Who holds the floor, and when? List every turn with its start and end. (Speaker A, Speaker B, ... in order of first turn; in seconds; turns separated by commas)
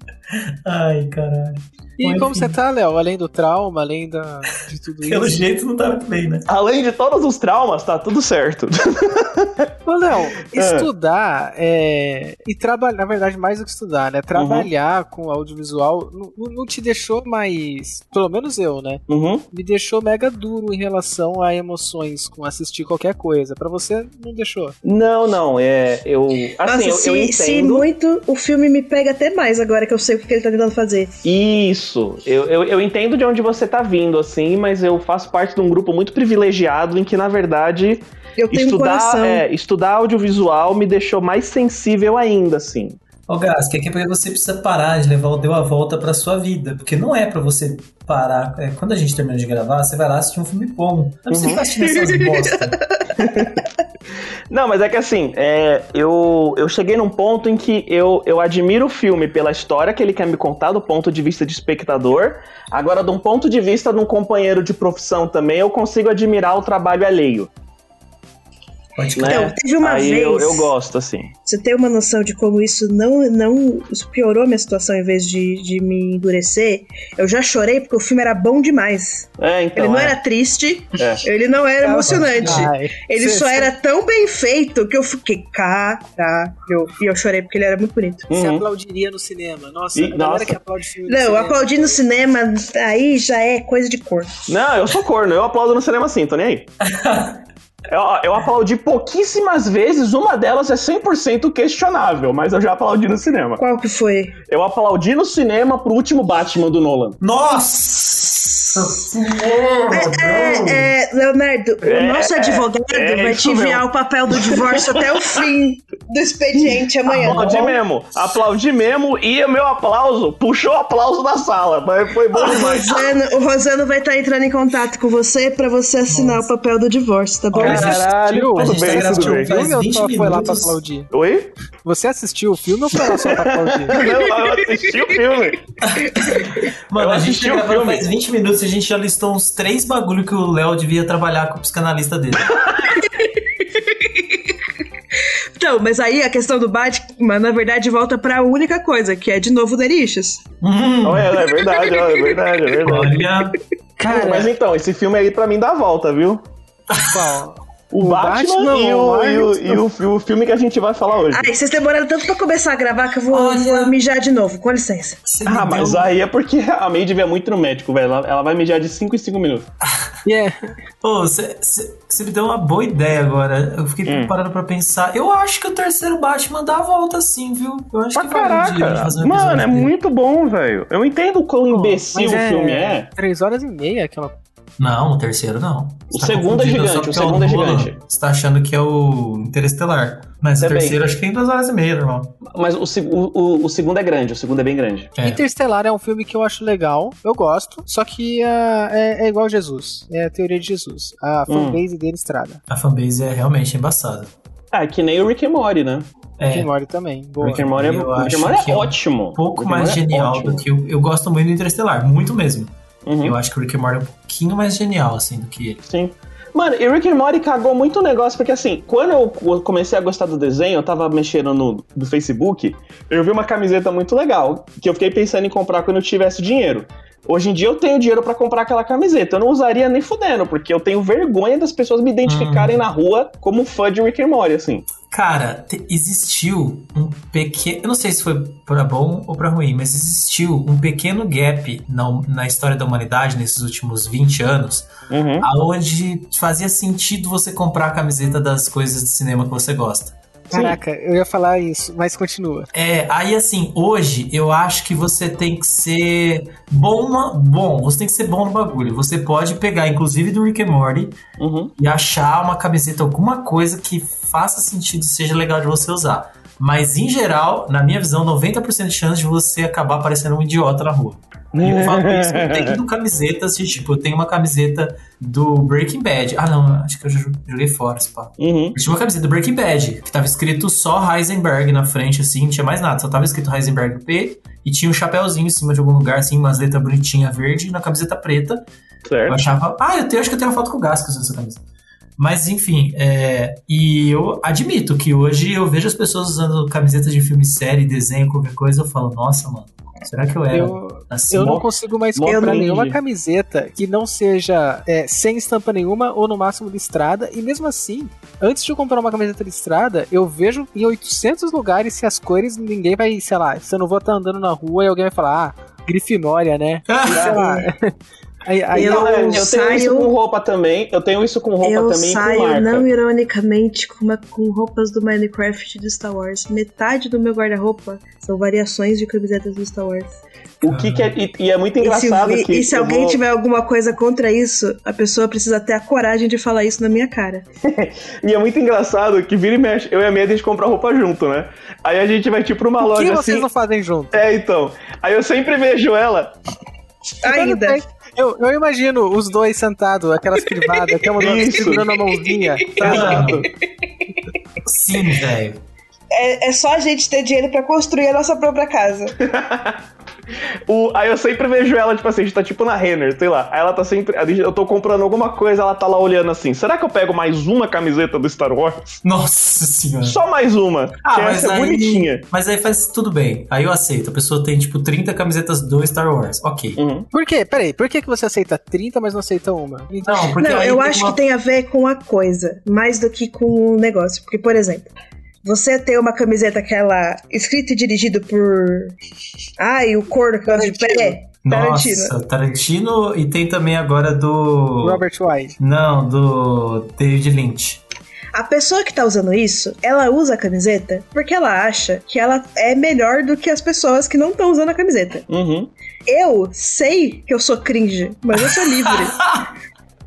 Speaker A: 0.3-2.5, Speaker B: 2.0-5.4, Speaker A: 5.0-6.5, Speaker C: 6.5-9.7, Speaker B: 9.8-24.8, Speaker C: 10.5-10.9, Speaker C: 14.3-14.7, Speaker C: 19.1-19.4, Speaker C: 24.8-27.9, Speaker D: 26.7-31.1, Speaker C: 31.2-43.0, Speaker D: 38.4-39.4, Speaker A: 43.3-52.8, Speaker C: 51.3-51.9, Speaker D: 51.8-53.0, Speaker C: 53.1-53.6, Speaker C: 54.5-67.5, Speaker A: 69.0-69.5, Speaker C: 69.2-71.3, Speaker D: 69.3-70.7, Speaker D: 71.5-88.3, Speaker C: 79.4-80.2, Speaker C: 81.0-81.2, Speaker B: 81.8-83.7, Speaker A: 82.1-82.7, Speaker C: 88.3-88.6, Speaker B: 88.3-92.0, Speaker C: 89.9-90.6, Speaker D: 91.0-94.3, Speaker C: 94.5-96.7, Speaker A: 96.8-97.4, Speaker C: 97.9-103.6, Speaker D: 103.6-104.3, Speaker C: 104.5-107.2, Speaker A: 107.2-110.9, Speaker D: 109.9-117.6, Speaker C: 111.8-115.4, Speaker C: 116.5-123.1, Speaker A: 117.1-117.8, Speaker D: 122.3-127.9, Speaker A: 126.1-126.5, Speaker A: 127.5-128.0, Speaker C: 127.5-129.6, Speaker B: 127.5-131.1, Speaker A: 128.6-130.8, Speaker C: 131.1-131.5, Speaker B: 131.8-134.0, Speaker C: 133.0-135.6, Speaker D: 133.9-134.8, Speaker A: 135.8-142.6, Speaker C: 136.9-138.0, Speaker C: 142.5-142.8, Speaker D: 142.9-144.5, Speaker D: 145.6-150.4, Speaker A: 150.6-151.4, Speaker C: 151.0-153.2, Speaker D: 151.5-152.3, Speaker A: 152.8-153.6, Speaker B: 154.0-154.5, Speaker C: 154.0-156.4, Speaker A: 156.9-157.3, Speaker B: 157.1-159.8, Speaker C: 157.9-161.5, Speaker D: 161.3-165.2, Speaker A: 163.3-163.9, Speaker A: 165.3-166.1, Speaker C: 165.4-169.7, Speaker B: 170.2-170.7, Speaker A: 171.0-179.9, Speaker C: 174.0-174.3, Speaker C: 178.1-183.1, Speaker B: 181.7-184.4, Speaker A: 184.8-192.4, Speaker C: 186.1-188.0, Speaker C: 190.6-191.0, Speaker C: 192.4-195.1, Speaker A: 195.2-195.4, Speaker B: 195.2-202.6, Speaker C: 201.5-201.8, Speaker A: 202.7-204.3, Speaker C: 204.7-206.1, Speaker A: 206.4-206.7, Speaker B: 206.5-207.8, Speaker A: 207.4-215.8, Speaker C: 207.4-210.6, Speaker C: 213.0-213.4, Speaker C: 215.9-234.9, Speaker A: 232.2-232.8, Speaker A: 235.1-244.9, Speaker C: 245.1-245.5, Speaker A: 245.4-250.2, Speaker B: 250.5-252.7, Speaker C: 250.5-250.8, Speaker A: 252.7-261.2, Speaker C: 261.4-261.7, Speaker A: 261.8-288.7, Speaker C: 271.5-272.8, Speaker C: 278.4-278.8, Speaker C: 289.0-289.4, Speaker A: 289.3-291.6, Speaker A: 292.2-301.6, Speaker B: 300.5-317.9, Speaker C: 301.4-303.0, Speaker D: 302.3-302.6, Speaker A: 316.9-317.4, Speaker C: 317.0-317.5, Speaker B: 318.4-319.5, Speaker D: 318.7-320.1, Speaker C: 318.7-322.9, Speaker D: 321.6-330.1, Speaker C: 330.6-333.2, Speaker A: 330.6-331.1, Speaker D: 331.8-337.4, Speaker C: 337.6-343.5, Speaker B: 342.8-344.2, Speaker C: 344.1-346.4, Speaker D: 347.2-347.8, Speaker B: 347.2-353.4, Speaker C: 351.2-352.0, Speaker C: 352.8-353.5, Speaker A: 352.8-353.5, Speaker A: 354.6-355.6, Speaker D: 356.1-359.1, Speaker C: 359.2-359.8, Speaker C: 360.7-368.9, Speaker A: 369.0-370.2, Speaker C: 370.0-372.2, Speaker A: 371.0-376.8, Speaker C: 376.8-377.1, Speaker B: 377.1-380.4, Speaker A: 380.0-381.2, Speaker D: 380.4-384.9, Speaker D: 385.4-388.9, Speaker D: 389.6-392.1, Speaker B: 390.4-391.2, Speaker A: 391.4-395.0, Speaker B: 394.8-395.6, Speaker A: 395.6-397.8, Speaker D: 398.3-405.2, Speaker C: 405.3-405.7, Speaker D: 406.1-409.2, Speaker A: 408.4-409.5